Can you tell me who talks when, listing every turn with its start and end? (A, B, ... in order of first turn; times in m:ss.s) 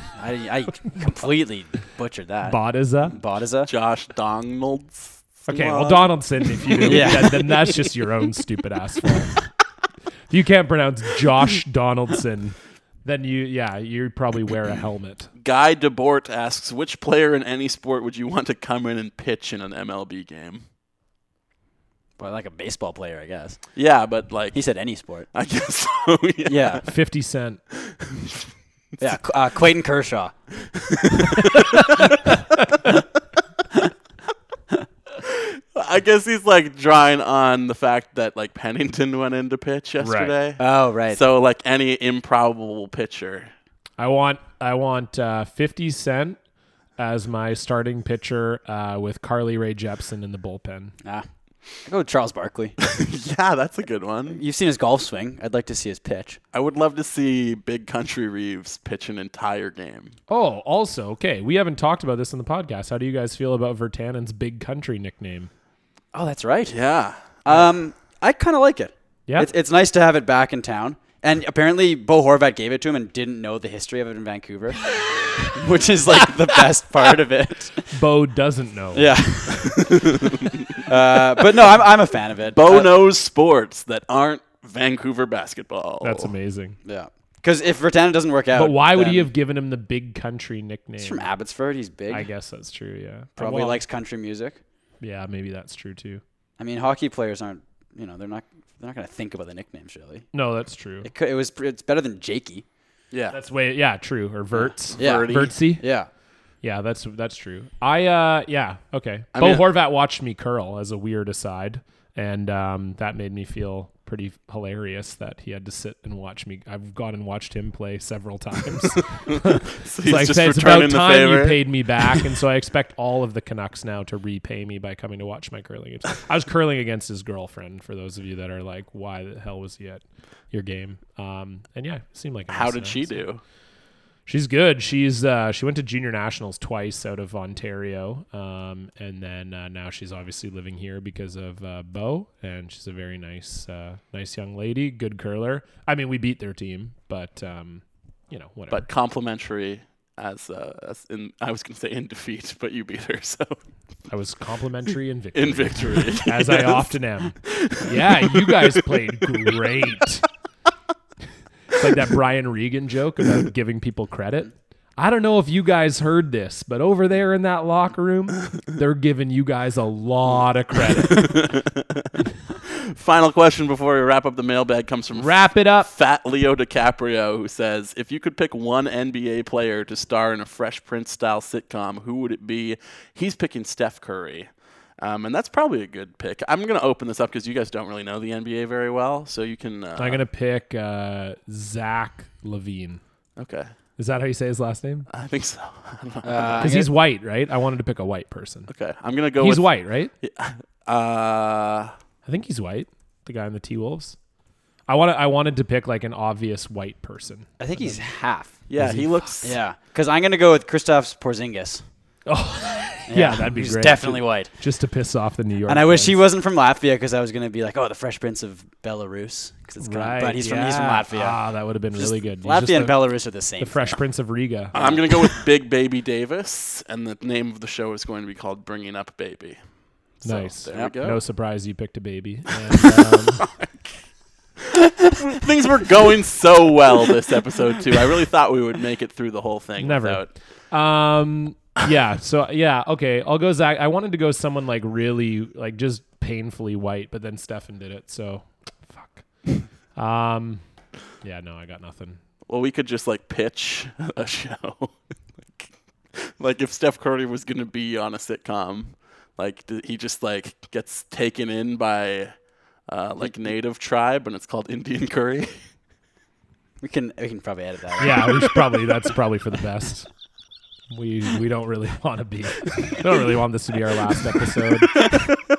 0:00.2-0:03.7 A
0:02.4-0:03.2 B
0:03.7-0:07.4 C
0:05.5-0:09.3 B
0:06.8-0:07.4 A
0:10.3-0:15.3 B
0:15.4-0:20.6 C
0:22.2-0:23.6 A
0:23.8-0:24.6 C
0:24.5-0:25.3 A
0:25.3-0:26.8 C
0:26.5-0:26.8 A
0:26.8-0:27.6 B
0:27.8-0:28.2 C
0:29.0-0:30.4 A
0:30.9-0:32.1 C
0:35.2-0:43.5 C
0:40.0-0:40.3 B
0:40.6-0:41.2 A
0:44.0-0:46.4 B
0:47.0-0:50.9 B
0:51.8-0:52.8 A
0:52.8-0:54.4 C
0:54.3-0:56.4 A
0:56.5-1:00.1 C
1:00.3-1:05.5 B
1:06.1-1:06.8 A
1:06.7-1:07.4 C
1:07.4-1:14.9 A
1:15.5-1:17.9 A
1:17.9-1:19.5 B
1:18.9-1:20.0 A
1:19.7-1:20.8 C
1:20.9-1:22.9 A
1:22.6-1:26.3 C
1:26.0-1:26.8 B
1:26.8-1:29.3 A
1:28.5-1:31.3 B
1:31.0-1:32.3 A
1:32.1-1:33.8 B
1:33.4-1:34.6 A
1:35.0-1:36.2 B
1:36.6-1:40.3 A
1:40.3-1:41.1 B
1:41.0-1:42.6 A
1:43.1-1:43.4 C
1:43.3-1:45.8 B
1:44.6-1:46.1 A
1:45.0-1:45.6 C
1:46.6-2:13.2 B
1:49.4-1:49.7 C
1:59.3-2:02.2 C
2:12.5-2:13.4 C
2:14.3-2:28.9 B
2:28.7-2:33.6 C
2:34.1-2:40.2 B
2:35.4-2:36.9 C
2:37.4-2:38.6 C
2:41.8-2:51.4 B
2:51.0-2:52.1 C
2:52.7-3:04.5 C
2:55.2-2:55.9 B
3:05.0-3:10.2 C
3:10.0-3:13.0 B
3:13.4-3:13.7 C
3:14.0-3:15.1 B
3:15.1-3:16.7 C
3:16.2-3:16.9 A
3:16.6-3:18.7 B
3:18.7-3:21.9 C
3:19.4-3:20.1 B
3:22.3-3:24.2 B
3:24.9-3:28.0 B
3:27.6-3:28.6 A
3:28.7-3:29.6 C
3:28.8-3:29.3 B
3:29.4-3:31.8 A
3:32.3-3:36.2 B
3:33.1-3:34.5 A
3:35.7-3:41.4 A
3:39.8-3:44.8 B
3:41.9-3:44.0 A
3:44.7-3:45.0 A
3:44.7-3:49.6 C
3:50.2-3:51.2 C
3:50.2-3:53.4 B
3:53.4-3:54.0 C
3:54.6-4:00.3 C
3:59.8-4:09.3 B
4:10.0-4:10.6 B
4:11.2-4:12.2 B
4:12.5-4:22.3 C
4:22.9-4:25.6 C
4:26.8-4:28.6 A
4:28.0-4:30.1 B
4:30.9-4:35.1 B